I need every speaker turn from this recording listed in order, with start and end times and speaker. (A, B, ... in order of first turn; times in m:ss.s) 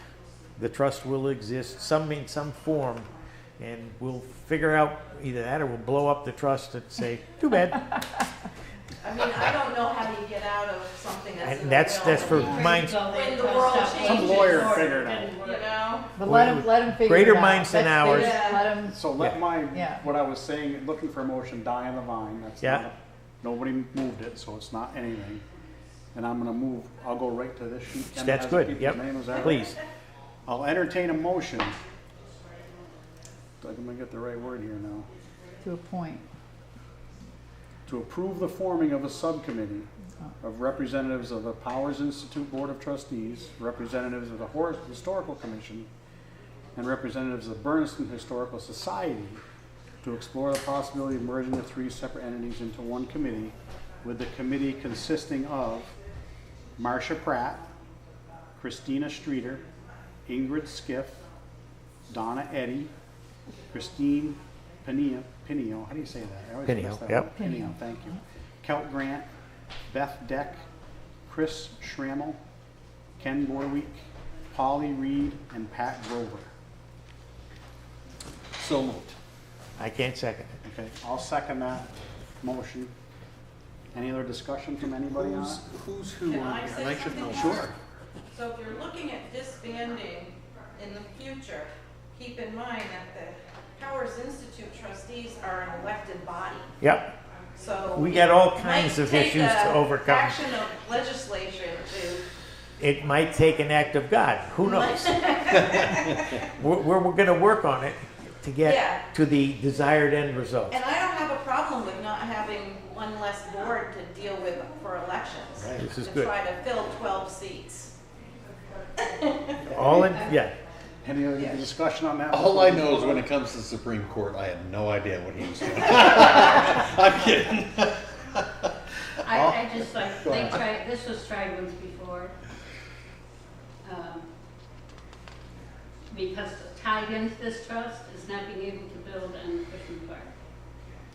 0:00.6-0:07.8 A
0:09.0-0:16.1 B
0:11.4-0:13.0 A
0:12.0-0:15.7 C
0:13.9-0:15.3 D
0:16.2-0:19.1 E
0:16.2-0:18.4 A
0:18.1-0:18.7 B
0:18.9-0:25.4 D
0:19.7-0:20.0 E
0:26.1-0:29.6 D
0:28.2-0:29.8 A
0:30.5-0:31.8 D
0:33.6-0:35.1 D
0:35.6-0:36.3 E
0:37.9-0:39.9 D
0:40.4-0:45.9 D
0:46.8-0:49.4 D
0:50.0-0:55.9 D
0:56.8-0:57.6 D
0:58.6-0:59.6 D
1:00.3-1:01.2 D
1:02.1-1:02.9 D
1:03.7-1:09.3 D
1:06.7-1:07.3 A
1:07.3-1:07.8 E
1:09.9-1:10.7 D
1:11.3-1:12.4 D
1:13.2-1:16.5 D
1:18.6-1:19.2 F
1:19.8-1:20.6 A
1:20.6-1:22.9 D
1:23.9-1:25.6 D
1:24.8-1:27.8 F
1:26.2-1:27.7 B
1:28.3-1:36.7 B
1:36.8-1:37.1 A
1:37.5-1:42.2 B
1:37.9-1:40.4 A
1:42.8-1:45.2 A
1:44.6-1:46.4 B
1:46.4-1:50.8 A
1:48.6-1:49.0 B
1:50.7-1:57.9 B
1:55.6-1:55.9 F
1:55.8-1:56.3 A
1:59.0-1:59.6 B
1:59.6-2:00.3 D
1:59.6-2:00.5 A
2:01.0-2:03.3 D
2:01.4-2:01.6 B
2:02.3-2:08.7 F
2:09.2-2:12.3 C
2:09.3-2:10.6 F
2:13.8-2:14.3 C
2:16.1-2:20.3 C